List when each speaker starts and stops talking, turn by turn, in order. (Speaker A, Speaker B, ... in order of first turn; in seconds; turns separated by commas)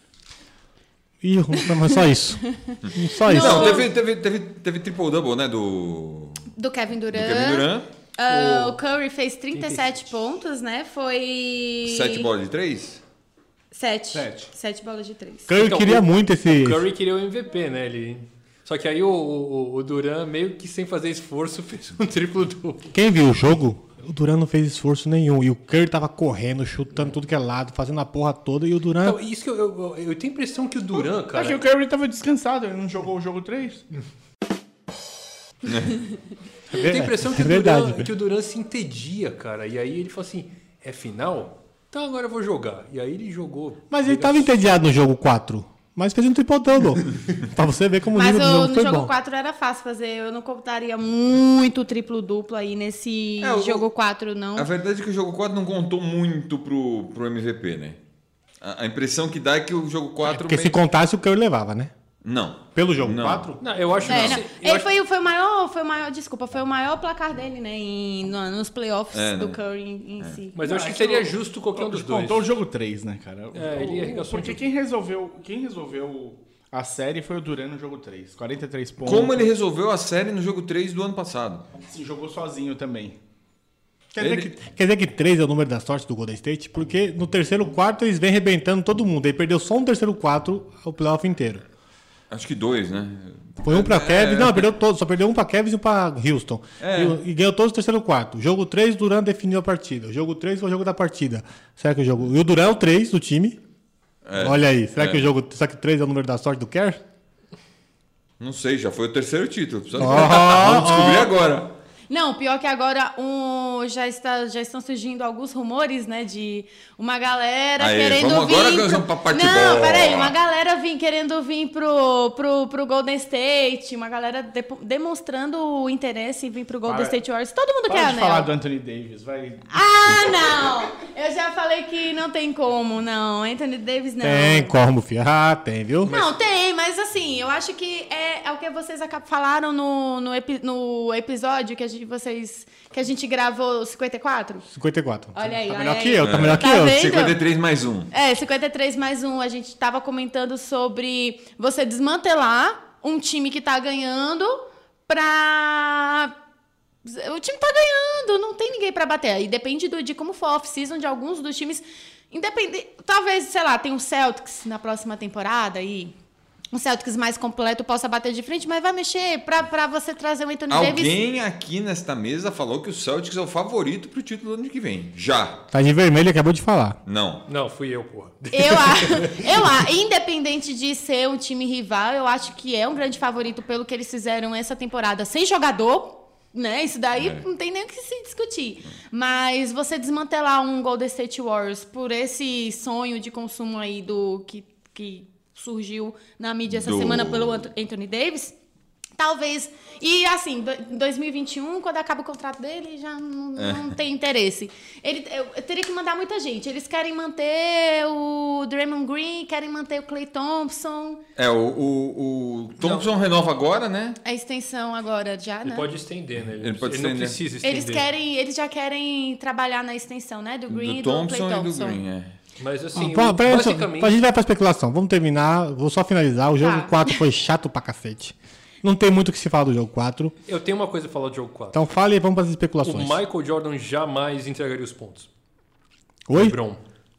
Speaker A: 1.2-2.4, Speaker B: 2.6-3.9, Speaker C: 2.8-6.5, Speaker A: 2.9-3.9, Speaker B: 6.5-12.3, Speaker C: 7.1-7.9, Speaker D: 8.3-8.8, Speaker D: 9.5-10.0, Speaker C: 11.8-13.0, Speaker B: 13.7-15.5, Speaker E: 14.1-14.5, Speaker A: 15.5-16.8, Speaker D: 15.5-22.9, Speaker A: 22.9-29.2, Speaker D: 29.0-31.6, Speaker E: 30.9-33.8, Speaker C: 35.6-36.0, Speaker A: 36.7-38.1, Speaker D: 36.8-44.5, Speaker A: 43.9-49.1, Speaker B: 48.1-54.7, Speaker C: 53.4-53.9, Speaker C: 54.5-58.0, Speaker C: 58.6-60.8, Speaker A: 60.3-61.9, Speaker C: 62.2-63.5, Speaker A: 62.7-63.6, Speaker D: 63.6-64.9, Speaker C: 64.0-64.4, Speaker B: 64.1-70.6, Speaker C: 69.1-69.6, Speaker D: 70.5-72.5, Speaker E: 70.6-79.5, Speaker D: 73.5-74.6, Speaker C: 79.0-81.6, Speaker E: 81.9-83.2, Speaker A: 84.1-91.6, Speaker C: 84.2-84.5, Speaker C: 92.3-94.7, Speaker A: 93.6-103.6, Speaker C: 96.8-97.2, Speaker C: 104.2-105.3, Speaker A: 104.3-107.0, Speaker C: 108.4-111.7, Speaker A: 110.0-111.3, Speaker B: 112.1-128.5, Speaker C: 117.8-120.3, Speaker E: 126.8-127.2, Speaker E: 127.9-130.6, Speaker B: 129.7-134.8, Speaker A: 134.2-136.2, Speaker B: 136.0-144.7, Speaker A: 144.7-147.2, Speaker B: 145.3-147.4, Speaker C: 146.2-148.1, Speaker B: 148.1-156.3, Speaker B: 157.0-166.1, Speaker B: 166.7-171.2, Speaker C: 170.7-175.6, Speaker A: 175.7-177.0, Speaker C: 177.1-177.4, Speaker D: 177.5-179.8, Speaker B: 178.5-198.5, Speaker C: 187.1-187.4, Speaker C: 196.7-197.6, Speaker B: 199.2-211.2, Speaker C: 203.6-203.9, Speaker C: 211.3-214.2, Speaker B: 214.2-215.9, Speaker D: 215.6-218.1, Speaker C: 216.6-217.4, Speaker B: 217.6-222.0, Speaker C: 220.7-222.3, Speaker D: 222.6-224.2, Speaker A: 222.9-230.3, Speaker B: 226.6-227.2, Speaker D: 230.5-231.8, Speaker A: 231.7-233.2, Speaker D: 232.8-235.3, Speaker A: 236.3-236.6, Speaker D: 236.3-236.8